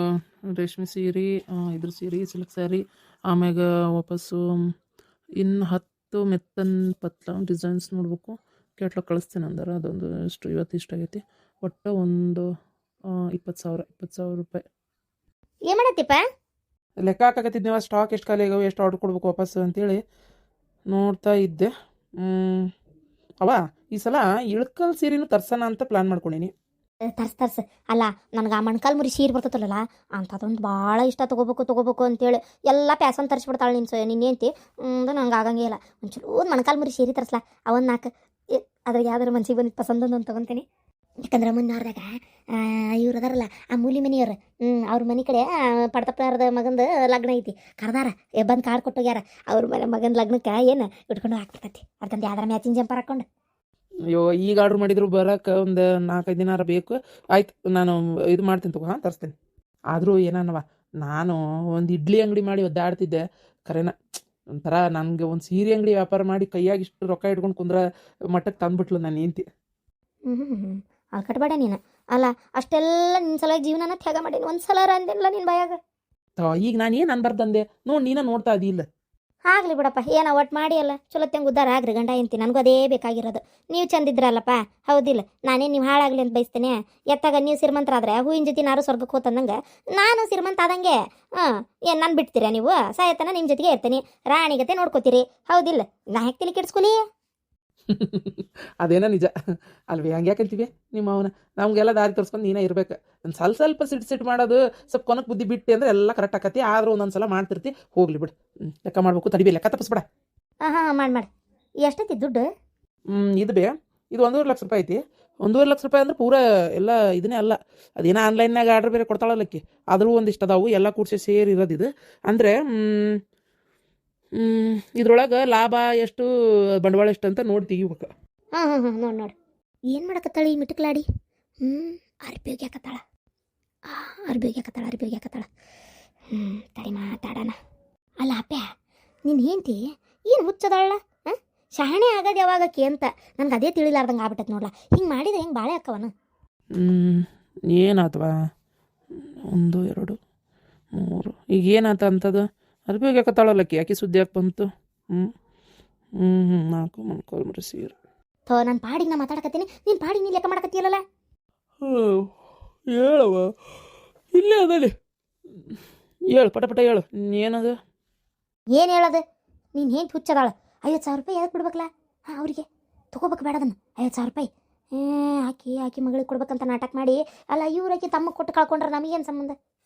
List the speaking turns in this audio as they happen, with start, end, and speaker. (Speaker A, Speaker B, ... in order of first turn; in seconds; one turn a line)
Speaker A: 0.5-4.4
Speaker A: 5.4-12.4
Speaker A: 13.3-14.6
Speaker B: 15.7-16.2
Speaker A: 17.0-20.0
Speaker A: 20.9-21.7
Speaker A: 22.2-22.6
Speaker A: 23.4-26.5
Speaker B: 27.1-40.6
Speaker B: 41.2-53.2
Speaker A: 54.1-59.3
Speaker A: 59.9-63.9
Speaker A: 64.6-67.8
Speaker A: 68.3-69.4
Speaker B: 70.3-75.8
Speaker A: 76.4-78.8
Speaker B: 79.5-97.0
Speaker A: 97.9-99.3
Speaker A: 99.9-110.0
Speaker B: 110.7-111.3
Speaker B: 111.8-112.5
Speaker A: 113.1-122.6
Speaker A: 124.4-126.3
Speaker A: 126.8-128.1
Speaker B: 128.6-129.3
Speaker B: 129.9-131.1
Speaker B: 131.7-133.0
Speaker B: 133.9-135.5
Speaker B: 136.3-137.5
Speaker B: 138.2-138.7
Speaker B: 139.3-146.1
Speaker A: 146.8-148.3
Speaker A: 149.5-150.2
Speaker A: 151.0-155.3
Speaker A: 156.2-157.9
Speaker B: 158.5-161.0
Speaker A: 161.9-162.1
Speaker A: 162.9-163.4
Speaker A: 164.3-164.9
Speaker A: 166.3-167.7
Speaker B: 168.7-169.2
Speaker B: 169.8-179.6